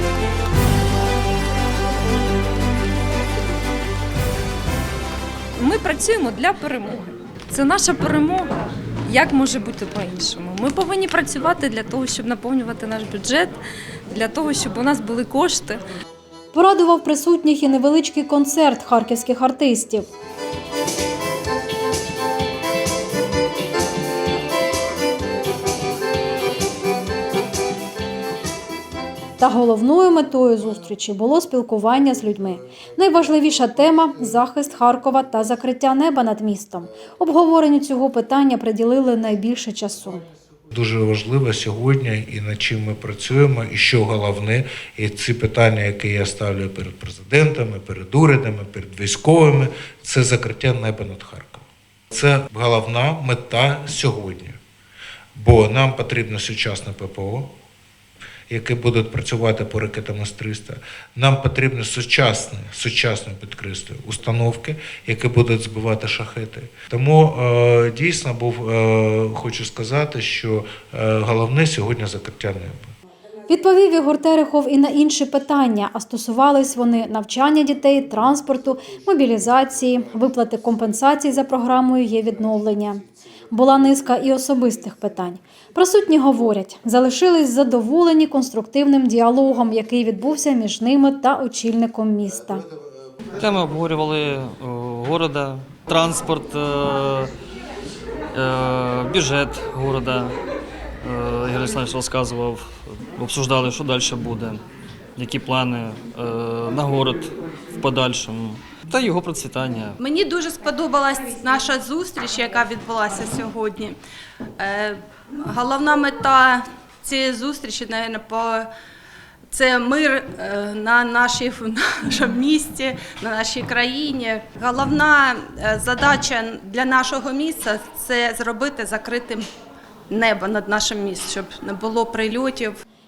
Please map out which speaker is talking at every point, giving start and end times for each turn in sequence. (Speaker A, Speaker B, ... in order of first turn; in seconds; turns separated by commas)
Speaker A: 5.6-8.5, Speaker A: 9.1-13.6, Speaker A: 14.1-15.8, Speaker B: 16.5-20.1, Speaker B: 29.4-40.2, Speaker C: 40.7-54.6, Speaker C: 55.3-57.5, Speaker C: 58.5-72.9, Speaker B: 73.5-92.6, Speaker D: 93.3-97.3, Speaker D: 98.3-100.3, Speaker D: 101.0-104.6, Speaker D: 105.2-110.0, Speaker E: 110.0-114.0, Speaker E: 114.6-118.7, Speaker E: 119.5-129.4, Speaker E: 130.1-132.8